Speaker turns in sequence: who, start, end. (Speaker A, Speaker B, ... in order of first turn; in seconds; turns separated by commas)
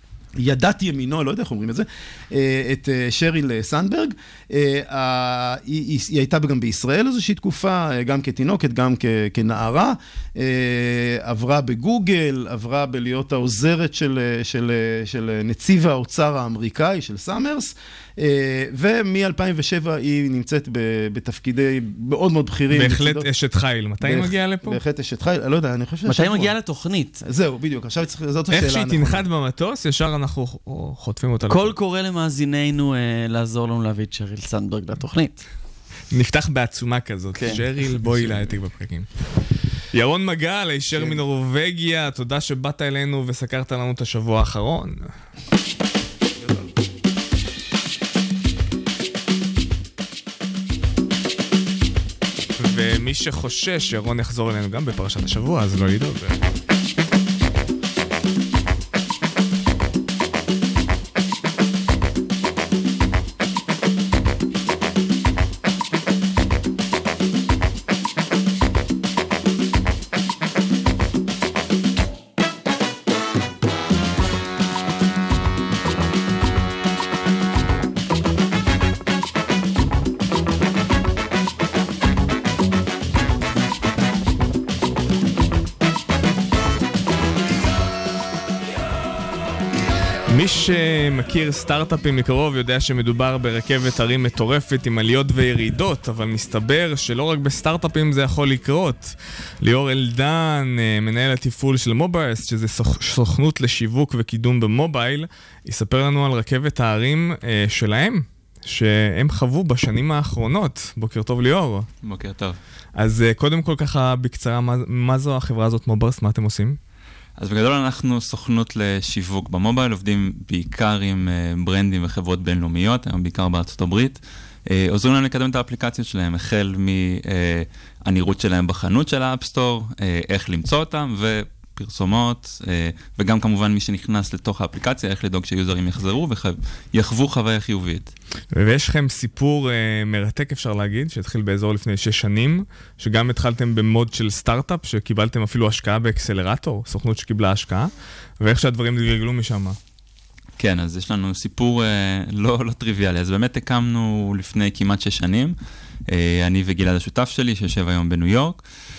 Speaker A: 0.4-23.3, Speaker B: 22.7-24.8, Speaker A: 24.0-26.5, Speaker C: 26.1-27.2, Speaker A: 27.2-29.2, Speaker B: 28.5-31.7, Speaker C: 31.5-35.5, Speaker B: 36.1-39.1, Speaker C: 37.3-37.6, Speaker B: 39.9-45.1, Speaker B: 52.6-56.4, Speaker B: 90.3-111.9, Speaker D: 112.0-112.6, Speaker B: 113.0-116.8, Speaker D: 117.4-138.1, Speaker B: 138.5-149.8, Speaker D: 150.6-155.5, Speaker D: 156.1-158.6